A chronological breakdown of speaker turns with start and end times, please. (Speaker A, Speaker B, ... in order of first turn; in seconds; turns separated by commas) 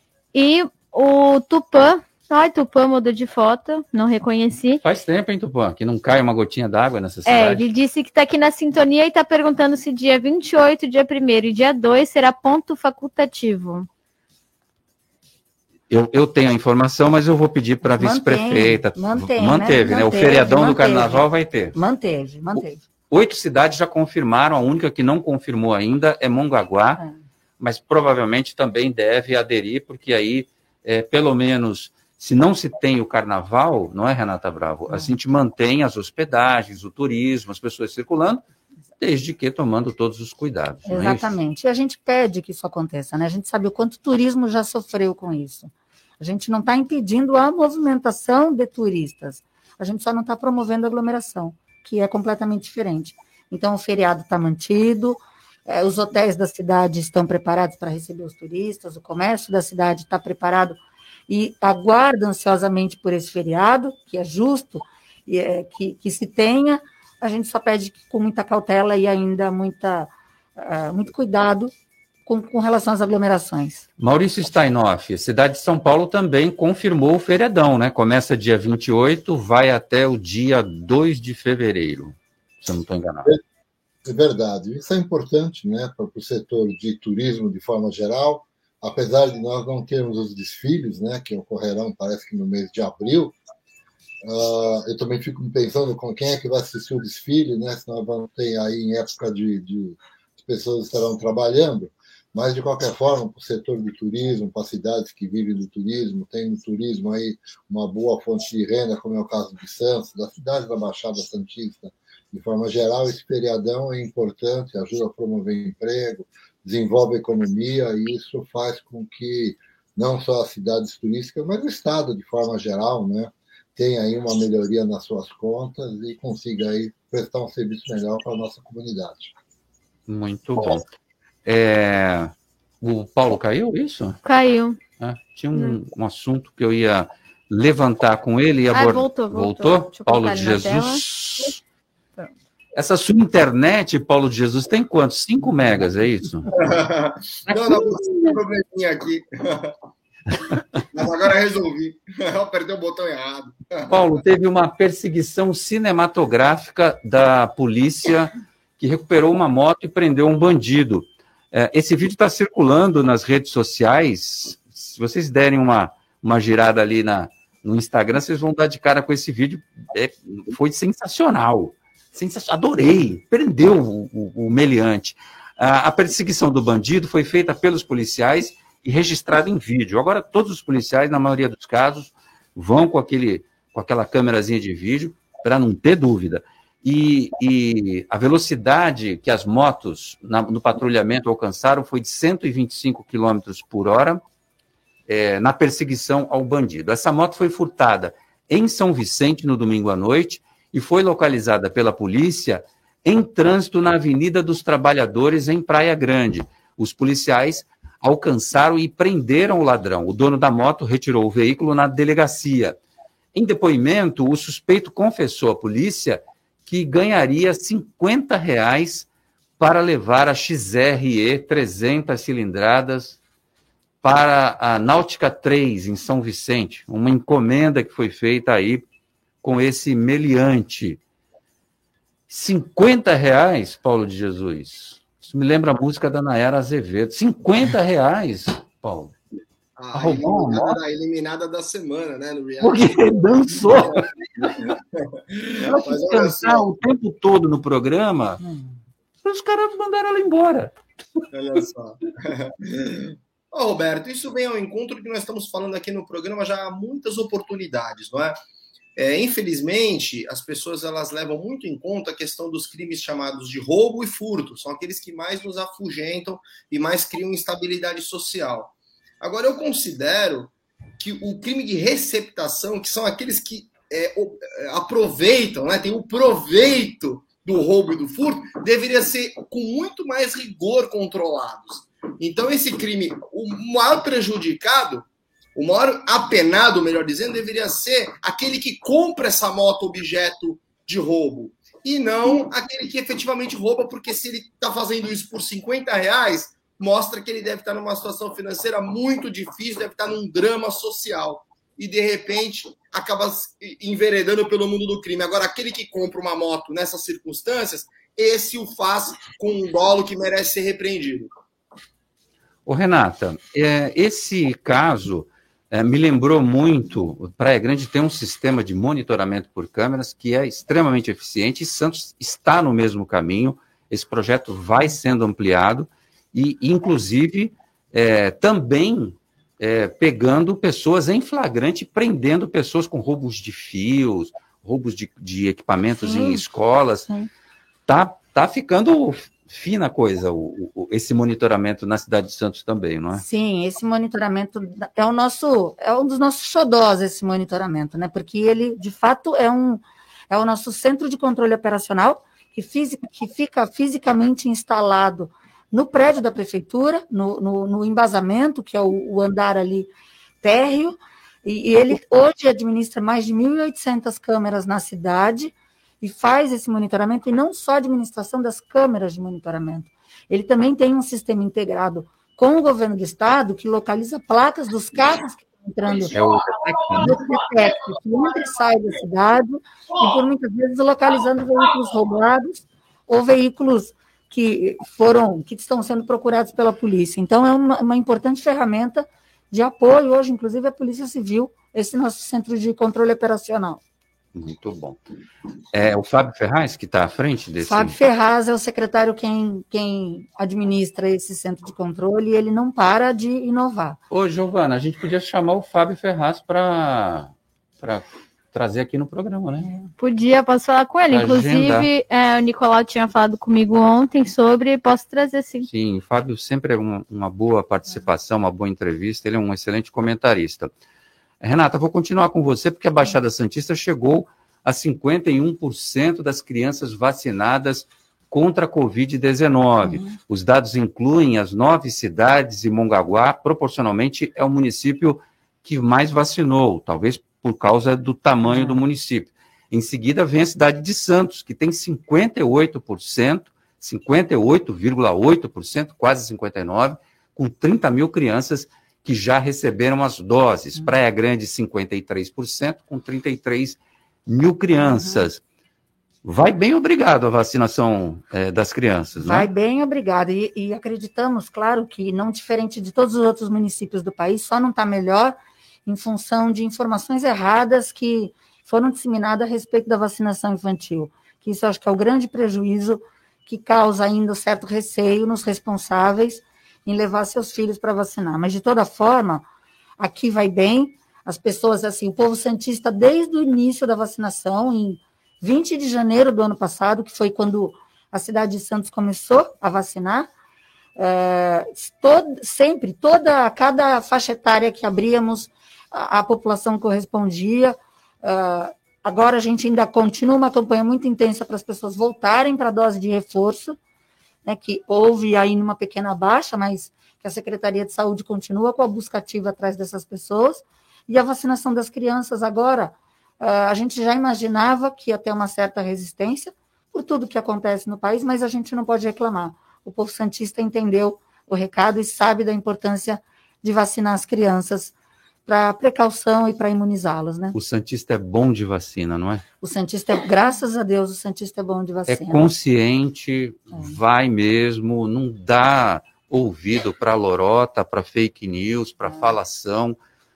Speaker A: 0.3-4.8, Speaker B: 4.8-7.7, Speaker A: 7.2-13.9, Speaker B: 15.9-21.7, Speaker C: 17.8-22.8, Speaker B: 23.1-27.0, Speaker B: 27.6-38.4, Speaker B: 39.0-41.3, Speaker C: 40.9-71.7, Speaker C: 72.2-73.8, Speaker B: 74.0-83.3, Speaker D: 84.0-93.4, Speaker D: 94.2-129.3, Speaker B: 130.1-130.9, Speaker B: 131.4-134.2, Speaker A: 134.2-134.8, Speaker B: 135.0-141.6, Speaker A: 138.7-141.5, Speaker B: 142.7-146.5, Speaker E: 146.6-149.7, Speaker E: 150.9-153.9, Speaker B: 153.9-194.2, Speaker B: 195.1-212.8, Speaker B: 213.3-219.1, Speaker B: 219.6-223.2, Speaker B: 224.0-228.8, Speaker B: 229.4-231.0, Speaker B: 232.3-239.1, Speaker E: 239.8-242.9, Speaker B: 239.9-240.8, Speaker B: 242.6-244.5, Speaker E: 243.6-246.7, Speaker B: 245.6-248.4, Speaker B: 249.2-250.7, Speaker E: 251.3-258.4, Speaker E: 258.9-311.3, Speaker B: 312.6-337.1, Speaker C: 336.0-336.4, Speaker B: 337.9-343.2, Speaker C: 343.1-359.9, Speaker C: 360.4-376.2, Speaker B: 376.1-377.2, Speaker C: 376.9-393.8, Speaker B: 394.3-395.0, Speaker B: 395.7-397.9, Speaker C: 397.6-404.0, Speaker B: 404.1-409.7, Speaker A: 410.0-415.7, Speaker B: 411.1-411.9, Speaker B: 415.7-420.7, Speaker B: 421.4-455.4, Speaker C: 429.8-430.1, Speaker C: 438.5-438.8, Speaker C: 454.8-455.2, Speaker B: 456.2-459.5, Speaker C: 459.1-479.4, Speaker C: 480.0-490.3, Speaker C: 490.9-503.8, Speaker C: 504.4-524.9, Speaker C: 525.5-527.5, Speaker B: 527.5-529.4, Speaker C: 529.6-532.5, Speaker B: 532.1-540.0